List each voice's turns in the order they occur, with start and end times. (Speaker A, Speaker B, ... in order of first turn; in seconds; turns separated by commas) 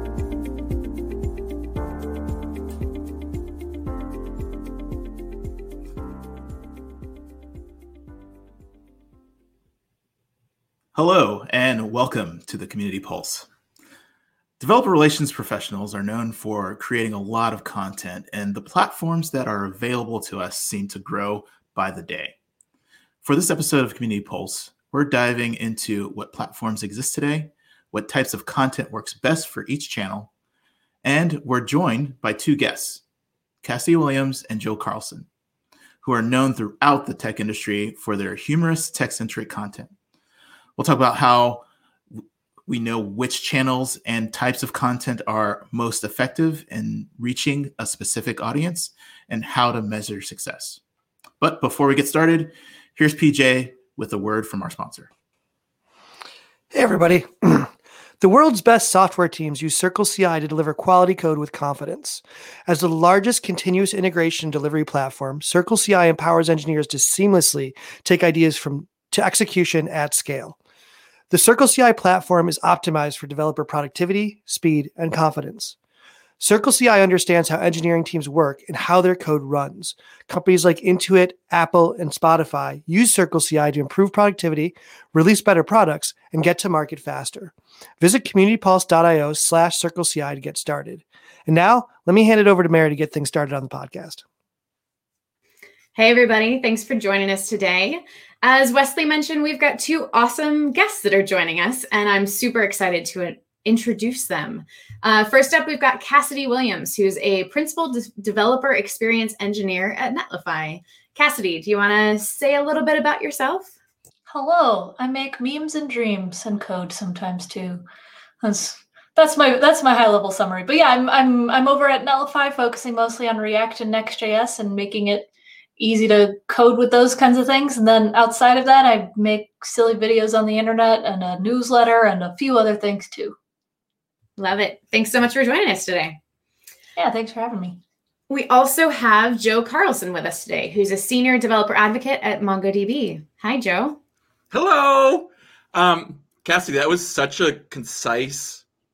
Speaker A: 10.9-13.5, Speaker A: 14.6-22.3, Speaker A: 23.2-30.3, Speaker A: 31.0-33.0, Speaker A: 33.6-35.3, Speaker A: 36.0-39.9, Speaker A: 40.8-41.7, Speaker A: 42.2-50.8, Speaker A: 51.4-55.1, Speaker B: 56.7-70.6, Speaker B: 71.3-75.8, Speaker B: 76.4-94.2, Speaker C: 96.0-113.7, Speaker D: 114.3-117.8, Speaker D: 118.4-133.3, Speaker C: 134.4-136.2, Speaker D: 137.0-137.8, Speaker C: 138.3-144.0, Speaker E: 144.5-148.6